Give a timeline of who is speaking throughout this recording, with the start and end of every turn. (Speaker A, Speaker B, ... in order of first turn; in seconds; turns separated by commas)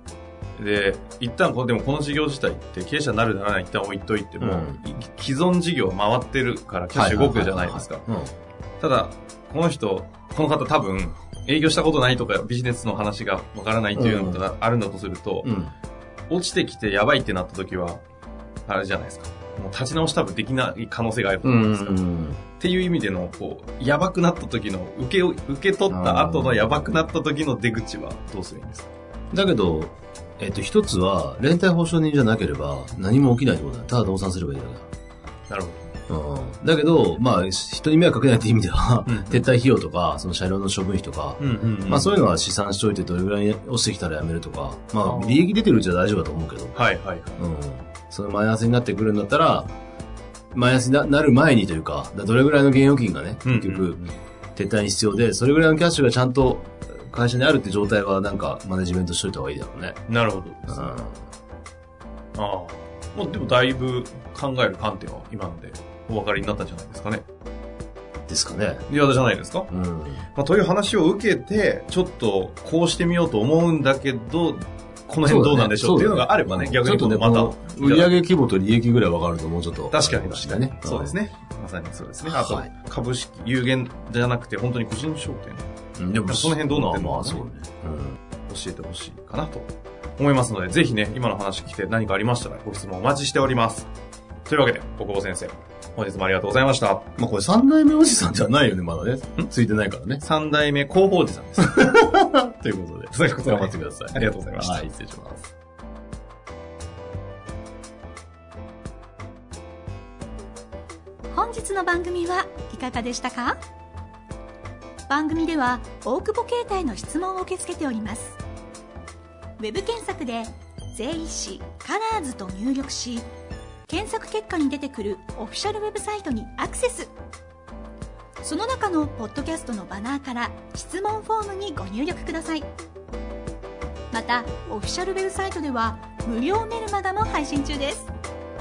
Speaker A: 0.6-8.0, Speaker B: 4.4-4.8, Speaker B: 6.9-8.3, Speaker A: 8.8-15.5, Speaker B: 13.9-14.4, Speaker B: 15.4-15.7, Speaker A: 16.3-18.0, Speaker A: 18.7-22.0, Speaker B: 21.4-22.4, Speaker A: 22.6-28.9, Speaker B: 25.9-26.9, Speaker B: 29.3-34.9, Speaker A: 35.5-35.9, Speaker B: 36.1-46.8, Speaker A: 39.0-39.5, Speaker A: 41.4-42.2, Speaker A: 45.0-45.5, Speaker A: 46.8-47.4, Speaker B: 47.4-49.7, Speaker B: 50.5-54.0, Speaker A: 53.5-54.1, Speaker B: 54.5-60.0, Speaker A: 60.1-61.0, Speaker B: 60.7-61.2, Speaker A: 62.3-67.2, Speaker B: 68.3-68.9, Speaker A: 68.9-69.7, Speaker B: 69.7-70.2, Speaker A: 70.3-78.2, Speaker B: 75.2-81.2, Speaker A: 79.9-85.7, Speaker B: 82.2-82.7, Speaker B: 86.0-88.2, Speaker A: 86.2-87.4, Speaker A: 88.5-93.9, Speaker A: 94.5-97.1, Speaker B: 97.2-100.2, Speaker A: 100.2-101.9, Speaker B: 101.6-105.5, Speaker A: 103.1-104.9, Speaker C: 111.3-113.6, Speaker C: 115.1-118.4, Speaker C: 119.6-123.3, Speaker C: 123.9-127.1, Speaker C: 128.4-132.7, Speaker C: 134.1-138.1